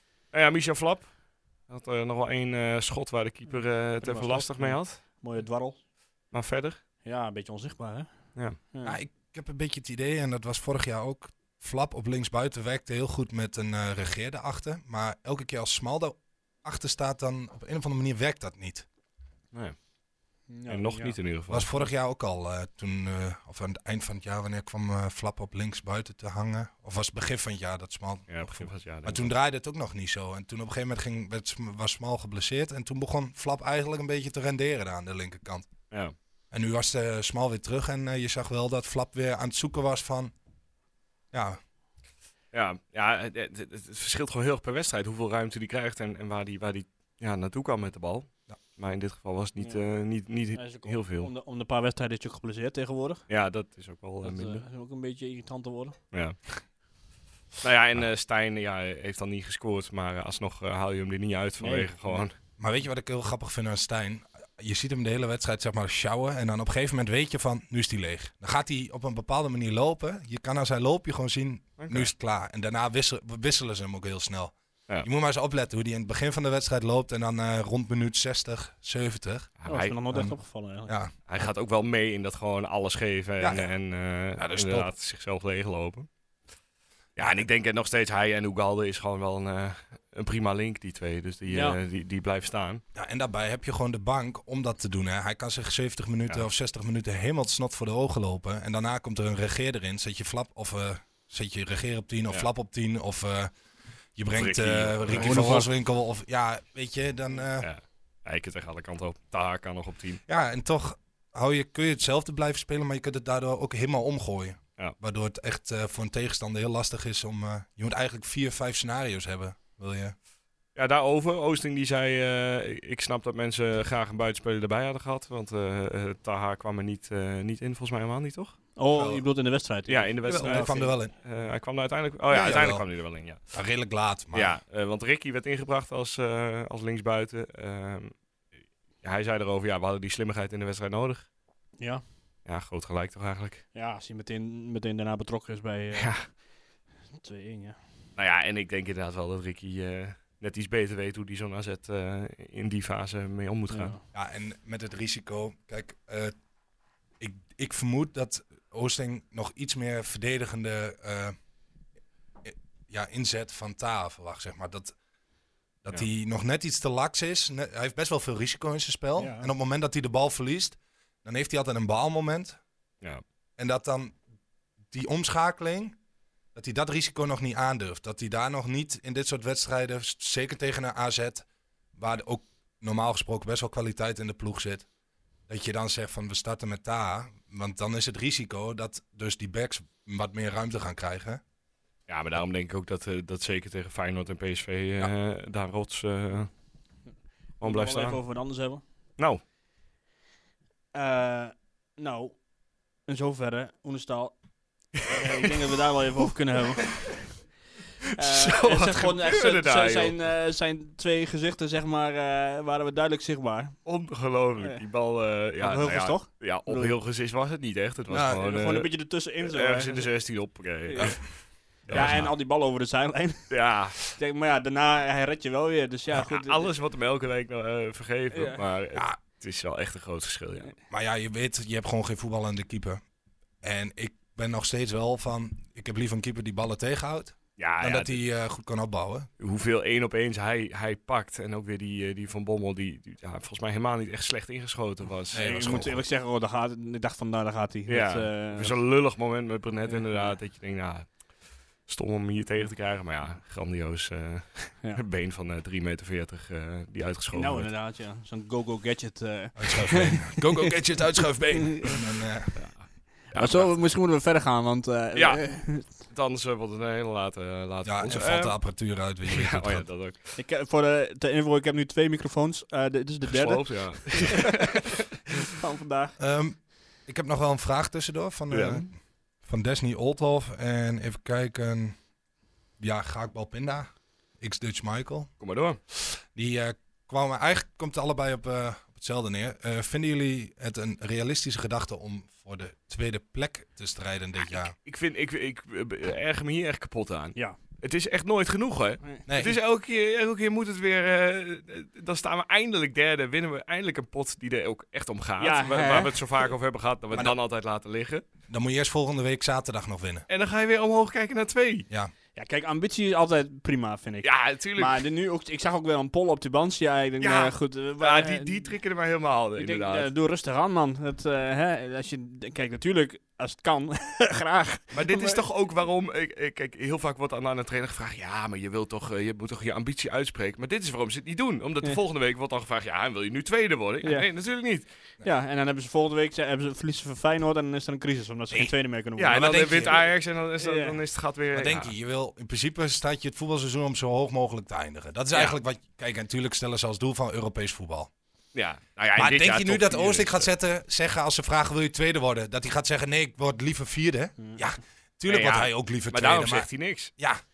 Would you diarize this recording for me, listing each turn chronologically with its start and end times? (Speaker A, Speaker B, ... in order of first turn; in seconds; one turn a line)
Speaker A: 0.3-1.2
Speaker A: 1.7-5.0
Speaker B: 3.9-5.8
Speaker A: 6.3-6.8
Speaker B: 7.0-9.0
Speaker C: 8.8-18.9
Speaker A: 19.5-19.8
Speaker B: 20.5-21.2
Speaker A: 20.7-21.9
Speaker C: 21.5-35.7
Speaker A: 28.3-29.3
Speaker C: 36.5-40.3
Speaker C: 41.3-41.6
Speaker A: 42.5-51.3
Speaker B: 49.6-49.9
Speaker B: 50.5-53.3
Speaker A: 53.3-54.6
Speaker B: 54.2-56.0
Speaker A: 56.1-56.4
Speaker A: 57.6-62.4
Speaker B: 61.6-62.2
Speaker C: 62.6-79.5
Speaker A: 71.8-72.1
Speaker A: 79.6-80.0
Speaker B: 79.7-80.9
Speaker C: 80.9-81.1
Speaker A: 81.3-86.1
Speaker C: 83.4-83.7
Speaker C: 84.4-84.9
Speaker A: 87.2-92.8
Speaker C: 87.2-87.5
Speaker B: 91.5-91.8
Speaker C: 92.9-103.5
Speaker C: 104.1-107.7
Speaker A: 104.3-105.6
Speaker B: 105.2-105.7
Speaker A: 107.6-110.2
Speaker C: 110.3-120.2
Speaker A: 120.8-128.6
Speaker B: 128.8-130.9
Speaker C: 128.9-129.2
Speaker A: 129.9-133.4
Speaker C: 130.3-131.1
Speaker C: 132.3-132.9
Speaker C: 133.5-134.6
Speaker A: 134.3-138.2
Speaker A: 139.0-141.3
Speaker A: 142.4-143.6
Speaker B: 143.7-146.4
Speaker A: 145.9-146.3
Speaker B: 147.2-147.8
Speaker A: 148.2-153.9
Speaker B: 153.7-154.0
Speaker C: 154.1-156.3
Speaker C: 157.2-161.4
Speaker C: 162.4-164.9
Speaker C: 165.8-172.6
Speaker B: 169.2-169.5
Speaker C: 173.6-174.2
Speaker C: 174.9-176.0
Speaker C: 176.6-184.9
Speaker C: 185.5-191.4
Speaker A: 192.1-196.5
Speaker A: 197.6-198.2
Speaker B: 197.6-198.8
Speaker B: 200.9-202.4
Speaker B: 203.0-204.4
Speaker B: 204.9-207.3
Speaker A: 204.9-205.5
Speaker A: 208.1-210.2
Speaker B: 208.1-213.9
Speaker A: 213.8-221.3
Speaker B: 215.6-217.0
Speaker C: 218.1-218.4
Speaker B: 218.2-220.1
Speaker B: 220.9-226.7
Speaker A: 221.9-222.2
Speaker C: 221.9-222.3
Speaker A: 223.5-224.0
Speaker A: 226.2-230.7
Speaker B: 228.3-228.6
Speaker C: 230.9-233.0
Speaker C: 233.6-239.3
Speaker A: 237.6-238.2
Speaker A: 239.4-245.9
Speaker C: 245.3-246.0
Speaker B: 245.3-248.8
Speaker A: 247.9-251.2
Speaker B: 249.9-250.4
Speaker A: 251.8-257.7
Speaker B: 257.3-262.0
Speaker C: 259.6-262.6
Speaker A: 262.6-263.8
Speaker B: 263.3-265.9
Speaker A: 265.1-268.6
Speaker C: 267.9-269.9
Speaker A: 269.3-270.3
Speaker B: 270.4-274.9
Speaker A: 273.3-274.9
Speaker B: 275.4-276.2
Speaker C: 276.2-282.0
Speaker A: 278.5-278.9
Speaker C: 282.8-285.3
Speaker A: 285.4-285.8
Speaker C: 285.9-294.8
Speaker A: 294.8-308.2
Speaker C: 299.3-299.6
Speaker B: 305.4-306.4
Speaker C: 308.5-310.3
Speaker A: 310.3-311.9
Speaker B: 312.4-318.8
Speaker A: 314.2-315.0
Speaker A: 317.2-320.1
Speaker B: 319.6-325.4
Speaker A: 324.9-334.9
Speaker B: 335.2-340.1
Speaker A: 339.2-341.9
Speaker C: 339.3-339.9
Speaker B: 340.6-341.0
Speaker C: 341.5-348.1
Speaker A: 348.5-350.5
Speaker C: 349.1-357.4
Speaker B: 354.4-354.7
Speaker A: 355.3-357.1